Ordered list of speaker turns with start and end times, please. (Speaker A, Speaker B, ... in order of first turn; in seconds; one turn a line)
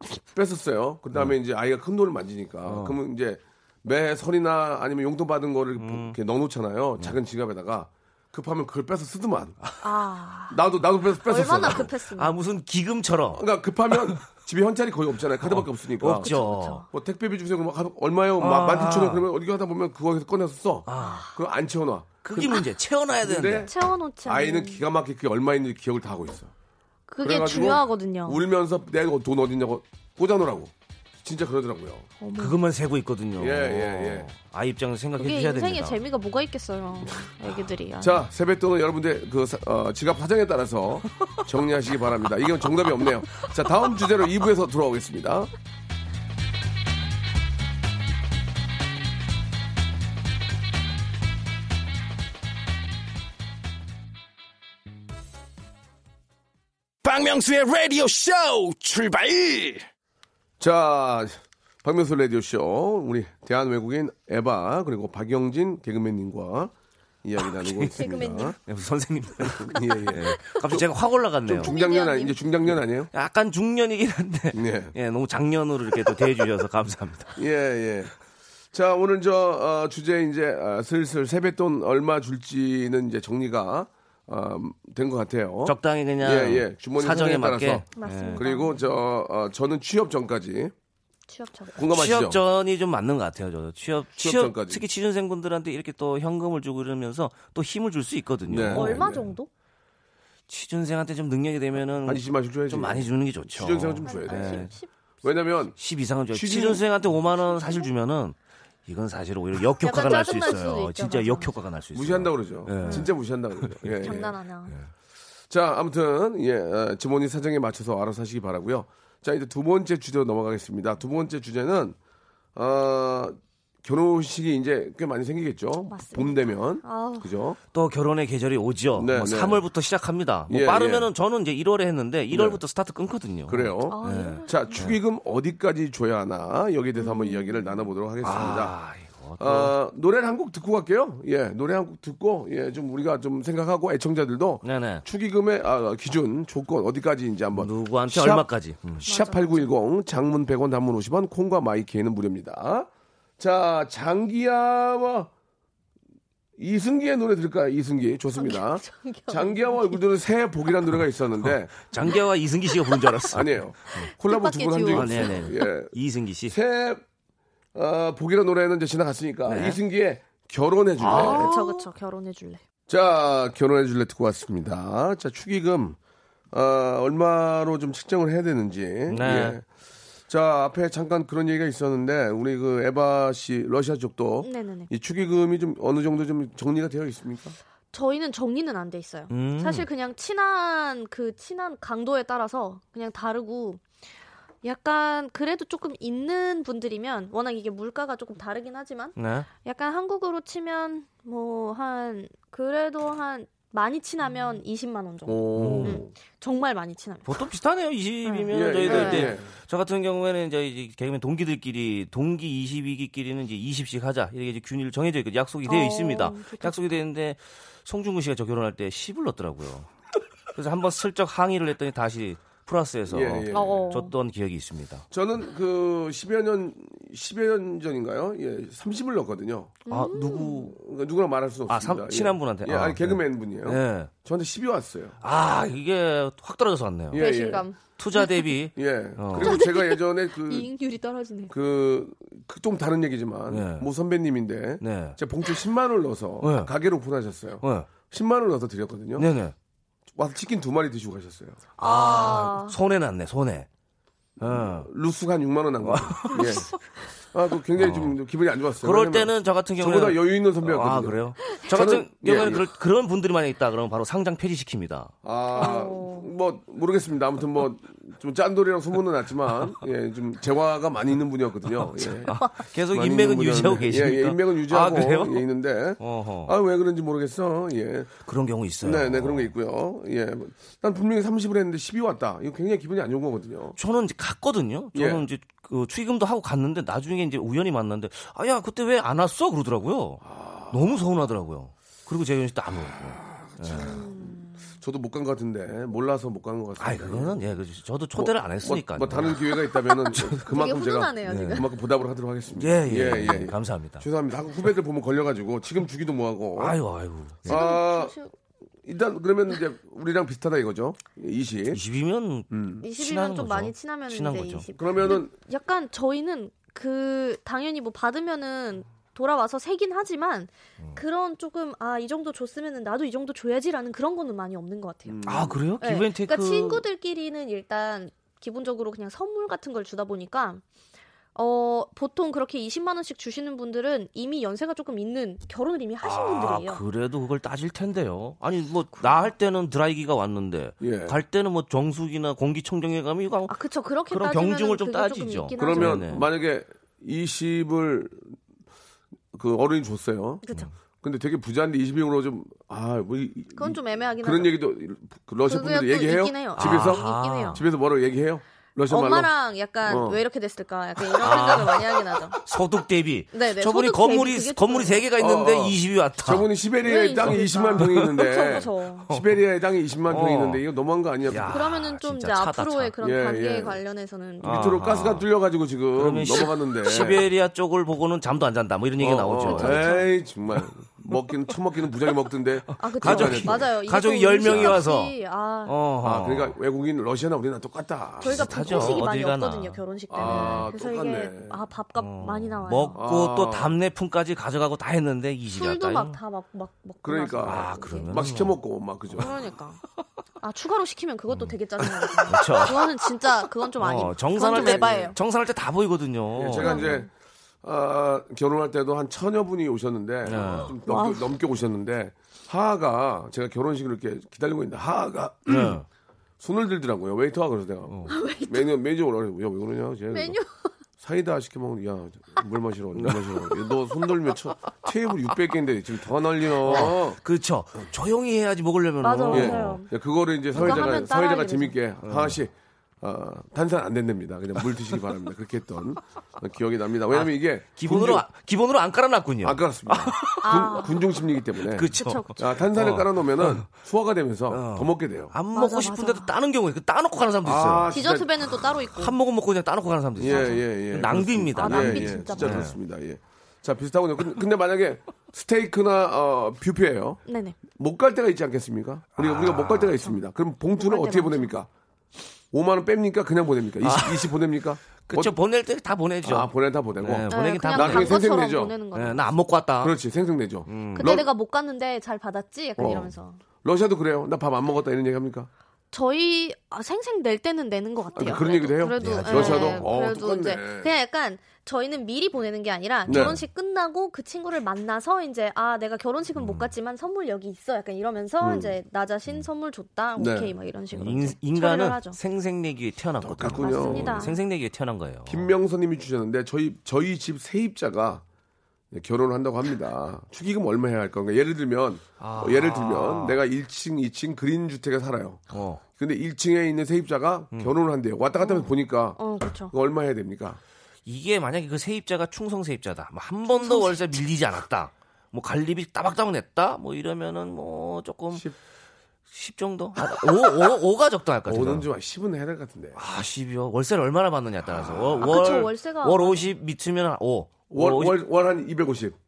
Speaker A: 0.3-9.6
Speaker B: 2.6-3.0
Speaker B: 5.8-6.2
Speaker C: 9.8-10.6
Speaker A: 10.5-11.9
Speaker C: 11.2-12.3
Speaker B: 11.4-13.5
Speaker A: 13.3-16.3
Speaker B: 15.4-16.8
Speaker C: 16.1-16.9
Speaker A: 16.9-22.6
Speaker B: 18.4-19.2
Speaker B: 20.9-21.2
Speaker C: 21.0-21.4
Speaker B: 22.2-23.7
Speaker A: 23.2-26.5
Speaker C: 23.6-24.8
Speaker C: 27.1-28.4
Speaker A: 27.2-30.7
Speaker A: 31.2-32.1
Speaker C: 32.2-32.6
Speaker B: 32.4-36.0
Speaker A: 33.4-34.3
Speaker C: 35.2-38.2
Speaker A: 38.0-45.5
Speaker D: 57.0-59.7
Speaker A: 60.6-66.7
Speaker A: 67.2-68.6
Speaker B: 67.4-67.9
Speaker C: 67.9-68.5
Speaker B: 68.5-71.7
Speaker A: 69.4-70.9
Speaker C: 70.2-70.5
Speaker A: 71.4-73.1
Speaker C: 71.6-72.4
Speaker B: 73.1-77.4
Speaker A: 74.5-74.9
Speaker A: 77.3-78.1
Speaker A: 78.7-90.7
Speaker B: 85.6-88.5
Speaker C: 88.0-88.8
Speaker C: 91.3-91.7
Speaker A: 91.7-92.4
Speaker B: 91.9-99.0
Speaker A: 94.2-94.8
Speaker A: 98.5-99.3
Speaker C: 98.7-99.5
Speaker B: 100.5-104.7
Speaker A: 102.0-104.7
Speaker C: 104.0-104.9
Speaker A: 105.2-105.8
Speaker B: 105.8-114.9
Speaker A: 106.3-106.8
Speaker C: 107.5-107.8
Speaker C: 109.8-111.5
Speaker A: 111.9-114.3
Speaker C: 112.8-113.1
Speaker C: 114.0-114.7
Speaker A: 115.5-122.0
Speaker A: 122.5-127.6
Speaker C: 125.9-127.3
Speaker B: 127.7-135.0
Speaker A: 128.9-129.6
Speaker A: 130.5-131.1
Speaker A: 132.3-132.6
Speaker A: 133.5-138.7
Speaker C: 133.9-134.9
Speaker C: 137.0-137.8
Speaker B: 138.2-139.7
Speaker A: 139.4-148.4
Speaker B: 144.6-145.0
Speaker B: 147.5-149.1
Speaker A: 149.0-152.9
Speaker C: 149.1-149.7
Speaker A: 153.4-155.3
Speaker A: 156.6-161.8
Speaker C: 158.3-160.0
Speaker B: 161.4-164.1
Speaker A: 163.3-165.9
Speaker C: 164.0-165.5
Speaker B: 164.9-166.6
Speaker A: 166.5-167.0
Speaker A: 167.7-171.6
Speaker B: 169.5-169.8
Speaker B: 171.0-171.7
Speaker C: 171.0-172.6
Speaker A: 172.9-176.0
Speaker A: 176.5-179.6
Speaker B: 179.1-179.6
Speaker A: 180.3-187.6
Speaker C: 184.4-184.9
Speaker C: 187.9-193.8
Speaker B: 189.3-189.9
Speaker C: 194.6-207.3
Speaker B: 199.2-199.5
Speaker A: 205.2-206.1
Speaker B: 205.6-206.0
Speaker B: 207.2-219.9
Speaker C: 208.2-209.3
Speaker A: 208.5-209.5
Speaker C: 215.7-216.9
Speaker B: 220.5-225.0
Speaker A: 223.1-223.9
Speaker C: 223.5-224.1
Speaker A: 225.1-229.8
Speaker C: 229.8-230.7
Speaker B: 229.9-230.7
Speaker A: 230.7-235.2
Speaker B: 231.7-234.1
Speaker B: 235.2-237.2
Speaker A: 237.1-237.7
Speaker C: 237.1-238.5
Speaker B: 238.0-239.6
Speaker A: 238.8-240.7
Speaker C: 239.3-241.5
Speaker A: 241.5-249.3
Speaker B: 243.5-243.9
Speaker B: 244.8-245.2
Speaker B: 246.4-246.7
Speaker B: 247.6-247.9
Speaker B: 249.2-249.5
Speaker A: 250.1-251.6
Speaker C: 251.8-252.7
Speaker B: 251.8-253.7
Speaker B: 254.4-254.9
Speaker A: 254.4-256.7
Speaker B: 255.8-256.7
Speaker A: 257.3-262.6
Speaker B: 257.8-258.2
Speaker B: 258.8-265.1
Speaker A: 265.2-272.4
Speaker C: 265.5-266.3
Speaker B: 271.8-275.4
Speaker A: 272.9-278.2
Speaker B: 276.0-276.5
Speaker B: 278.2-279.5
Speaker A: 278.8-283.8
Speaker B: 283.8-293.9
Speaker A: 284.9-285.2
Speaker A: 290.2-290.8
Speaker A: 293.6-297.4
Speaker C: 293.8-294.7
Speaker B: 296.8-299.5
Speaker A: 298.1-306.8
Speaker B: 300.1-300.4
Speaker C: 300.3-301.6
Speaker B: 301.3-301.6
Speaker B: 302.6-304.1
Speaker B: 306.6-307.6
Speaker A: 307.4-308.1
Speaker C: 307.5-308.3
Speaker A: 308.9-311.8
Speaker B: 311.7-315.1
Speaker A: 312.5-312.8
Speaker C: 312.8-325.2
Speaker A: 314.8-315.3
Speaker A: 325.1-325.6
Speaker B: 325.2-326.8
Speaker C: 325.8-330.6
Speaker C: 331.3-336.8
Speaker B: 336.0-343.6
Speaker A: 340.8-341.2
Speaker C: 343.5-346.1
Speaker B: 344.1-346.3
Speaker A: 345.6-348.4
Speaker A: 349.3-350.4
Speaker C: 350.4-350.7
Speaker A: 351.0-359.3
Speaker C: 353.5-354.6
Speaker C: 355.4-357.6
Speaker B: 356.6-357.6
Speaker C: 358.9-362.4
Speaker A: 359.8-360.2
Speaker B: 361.2-366.5
Speaker C: 363.3-365.0
Speaker A: 365.2-371.6
Speaker C: 366.8-369.1
Speaker B: 367.3-368.1
Speaker B: 369.1-369.4
Speaker B: 370.1-370.6
Speaker B: 371.3-372.9
Speaker C: 371.4-374.8
Speaker A: 373.0-373.8
Speaker B: 374.4-375.3
Speaker A: 374.4-377.3
Speaker B: 375.9-380.1
Speaker A: 379.0-383.7
Speaker C: 379.4-380.1
Speaker B: 380.6-381.2
Speaker C: 382.8-385.7
Speaker B: 383.0-386.6
Speaker A: 384.4-384.8
Speaker A: 386.0-389.1
Speaker B: 388.2-390.7
Speaker C: 388.2-393.0
Speaker A: 390.1-391.6
Speaker B: 391.9-396.2
Speaker A: 392.9-393.8
Speaker C: 395.5-398.1
Speaker A: 397.0-399.3
Speaker B: 397.4-398.6
Speaker C: 399.2-399.8
Speaker C: 400.4-405.1
Speaker B: 401.3-401.6
Speaker B: 402.3-403.0
Speaker B: 403.8-406.9
Speaker A: 404.4-405.1
Speaker A: 406.3-407.1
Speaker C: 406.6-407.1
Speaker A: 407.6-415.8
Speaker B: 410.2-410.7
Speaker C: 410.8-411.3
Speaker B: 415.5-415.9
Speaker A: 416.4-420.4
Speaker C: 418.1-418.7
Speaker C: 420.1-420.7
Speaker A: 421.0-427.2
Speaker B: 423.0-423.5
Speaker B: 426.6-429.8
Speaker C: 429.0-429.9
Speaker A: 429.3-438.2
Speaker C: 430.5-431.8
Speaker B: 430.6-431.0
Speaker B: 432.0-432.4
Speaker B: 437.1-440.9
Speaker A: 439.4-445.3
Speaker C: 440.4-441.0
Speaker B: 441.6-443.7
Speaker C: 441.9-442.4
Speaker B: 444.5-447.9
Speaker C: 445.5-446.3
Speaker A: 447.4-448.6
Speaker C: 447.9-449.1
Speaker B: 448.9-452.8
Speaker A: 450.2-461.7
Speaker C: 450.3-450.6
Speaker C: 451.6-452.6
Speaker C: 457.2-457.6
Speaker B: 459.2-460.0
Speaker C: 460.8-461.6
Speaker A: 462.5-465.3
Speaker B: 463.8-464.4
Speaker B: 465.0-468.2
Speaker A: 466.2-468.7
Speaker C: 467.3-469.2
Speaker B: 468.9-469.9
Speaker A: 469.8-471.3
Speaker B: 470.7-471.2
Speaker C: 470.9-473.4
Speaker A: 472.8-473.1
Speaker A: 473.6-475.5
Speaker C: 475.9-492.2
Speaker A: 478.1-480.9
Speaker B: 479.0-479.9
Speaker B: 483.1-483.4
Speaker A: 483.1-483.4
Speaker B: 486.4-486.7
Speaker A: 488.4-488.7
Speaker A: 490.2-490.5
Speaker B: 490.9-495.5
Speaker A: 493.2-494.3
Speaker C: 493.5-494.4
Speaker A: 495.2-498.2
Speaker A: 498.9-510.6
Speaker B: 502.2-503.4
Speaker B: 505.5-505.8
Speaker C: 508.4-509.7
Speaker B: 511.1-518.5
Speaker C: 513.5-514.2
Speaker B: 519.3-521.9
Speaker A: 521.5-523.0
Speaker B: 523.0-528.2
Speaker A: 524.7-525.6
Speaker C: 525.2-526.5
Speaker A: 527.7-529.1